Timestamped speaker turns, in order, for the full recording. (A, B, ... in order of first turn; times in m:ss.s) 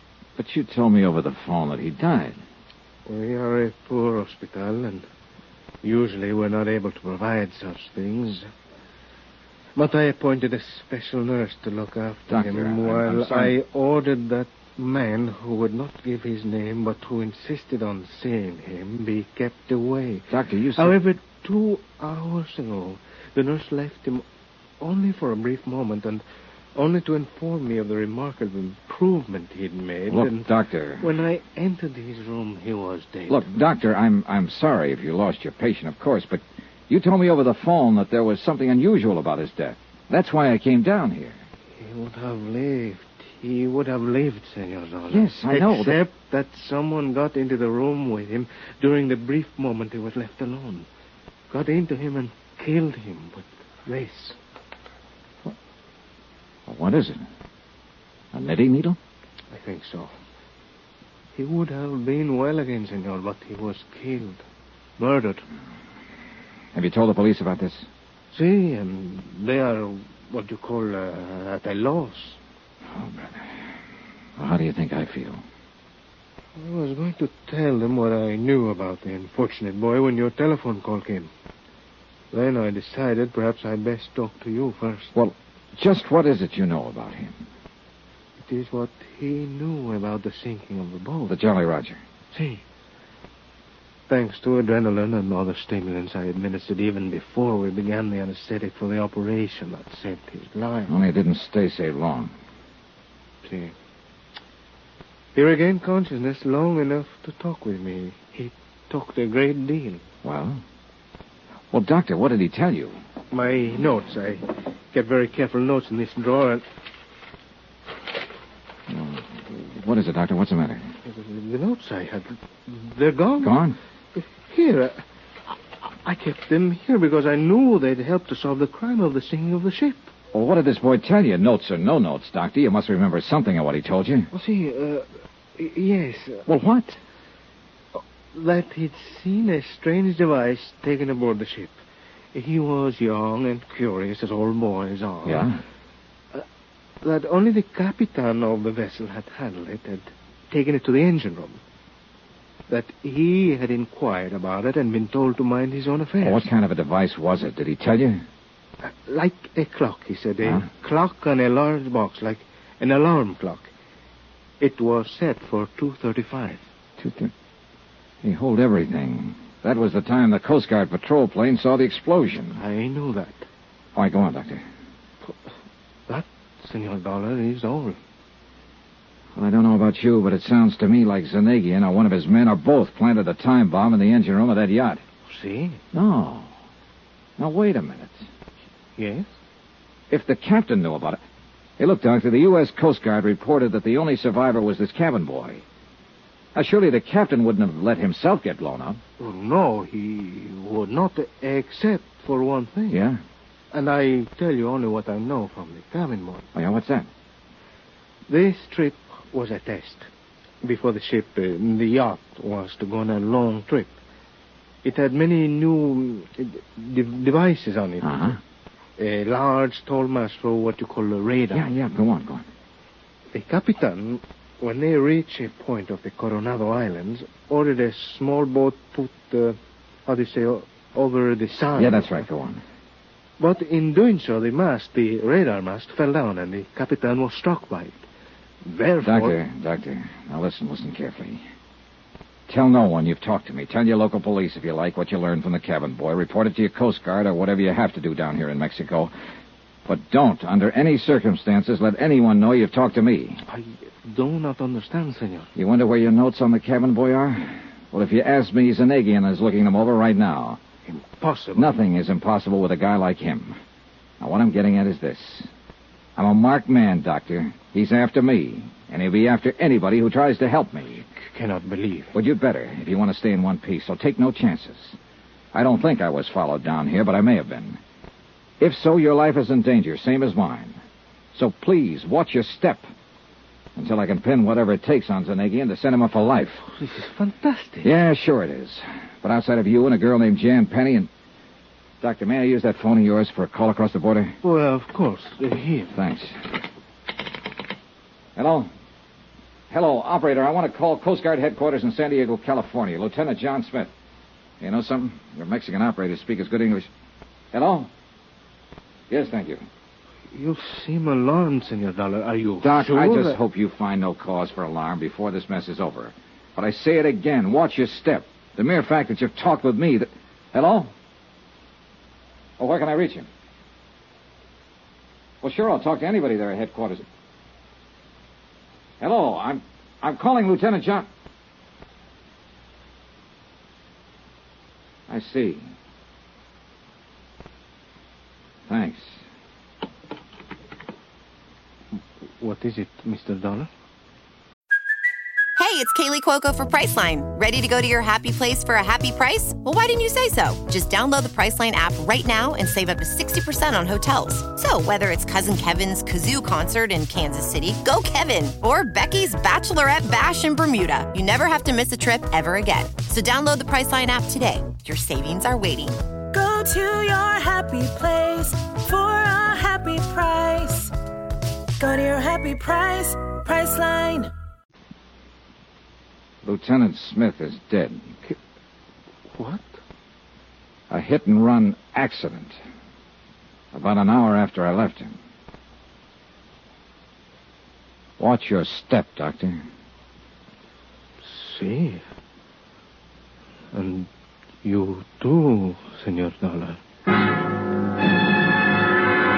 0:00.4-0:02.4 A
0:03.0-0:05.0 B
0:05.8-0:08.5 B
0:09.8-0:24.2 B
0:12.3-0:13.5 A
0:20.3-0:20.9 A
0:24.8-0:26.2 B
0:26.7-0:30.4 B
0:30.1-0:31.1 A
0:31.0-0:33.4 B
0:33.3-0:41.4 A
0:41.8-0:50.9 B
0:45.1-0:46.0 A
0:51.5-0:54.4 B
0:56.7-0:57.2 A
0:58.3-0:59.0 A
0:59.5-1:00.2 B
1:01.4-1:04.4 B
1:05.0-1:05.4 B
1:06.7-1:07.9 A
1:08.3-1:12.4 B
1:12.9-1:13.5 A
1:14.4-1:15.4 A
1:16.6-1:21.3 B
1:22.3-1:25.1 B
1:25.1-1:27.4 A
1:28.4-1:31.3 B
1:31.3-1:32.0 A
1:32.3-1:32.6 B
1:34.1-1:40.9 B
1:40.9-1:42.3 A
1:43.4-1:43.7 B
1:45.3-1:50.0 B
1:50.2-1:50.6 A
1:51.7-1:53.0 A
1:53.3-1:56.6 B
1:58.9-2:00.8 A
2:01.1-2:03.6 B
2:03.4-2:03.8 A
2:04.1-2:05.0 B
2:05.8-2:10.1 B
2:10.3-2:14.3 A
2:14.3-2:16.4 B
2:16.5-2:17.0 A
2:18.0-2:21.8 B
2:22.3-2:25.5 B
2:25.2-2:25.6 A
2:27.0-2:31.6 B
2:32.7-2:36.5 B
2:36.2-2:38.2 A
2:38.8-2:43.7 B
2:44.6-2:46.6 B
2:47.0-2:47.3 A
2:48.2-2:52.6 A
2:52.6-2:53.4 B
2:54.0-2:54.6 A
2:56.1-2:58.0 B
2:59.4-3:05.0 A
3:05.3-3:05.8 B
3:05.9-3:06.5 A
3:07.4-3:08.2 A
3:09.0-3:09.3 B
3:10.1-3:11.2 A
3:11.8-3:15.6 A
3:16.5-3:19.0 A
3:19.2-3:23.0 B
3:22.9-3:23.2 A
3:23.7-3:26.4 B
3:26.5-3:27.1 A
3:28.3-3:30.1 B
3:30.6-3:33.9 B
3:34.8-3:38.1 B
3:38.0-3:38.4 A
3:39.0-3:41.7 B
3:41.5-3:42.5 A
3:43.3-3:52.1 B
3:51.8-3:52.6 A
3:53.4-3:58.0 B
3:58.6-3:59.4 B
3:59.0-4:01.4 A
4:02.5-4:09.1 A
4:09.9-4:13.4 A
4:13.5-4:15.5 B
4:15.6-4:20.6 A
4:20.9-4:21.7 B
4:21.6-4:23.6 A
4:24.2-4:25.5 A
4:26.2-4:31.0 A
4:31.2-4:32.1 B
4:32.1-4:35.0 A
4:35.5-4:37.8 A
4:38.6-4:40.8 A
4:41.3-4:42.8 A
4:43.8-4:46.6 A
4:46.7-4:47.9 B
4:47.8-4:51.1 A
4:52.0-4:54.4 A
4:54.4-4:55.9 B
4:55.9-4:56.3 A
4:58.4-4:58.7 A
4:59.7-5:03.9 A
5:04.6-5:06.9 A
5:07.5-5:07.9 A
5:09.1-5:09.6 A
5:10.3-5:13.4 B
5:12.6-5:20.9 A
5:22.6-5:23.3 A
5:25.4-5:27.0 A
5:29.0-5:31.1 A
5:35.1-5:35.7 A
5:38.7-5:39.2 A
5:42.4-5:43.7 B
5:45.6-6:06.0 C
6:06.3-6:10.9 D
6:11.8-6:14.3 D
6:16.4-6:18.0 A
6:19.4-6:19.8 B
6:20.9-6:22.6 A
6:23.7-6:25.2 A
6:28.2-6:29.6 A
6:31.2-6:32.0 B
6:33.7-6:34.1 B
6:34.6-6:36.8 B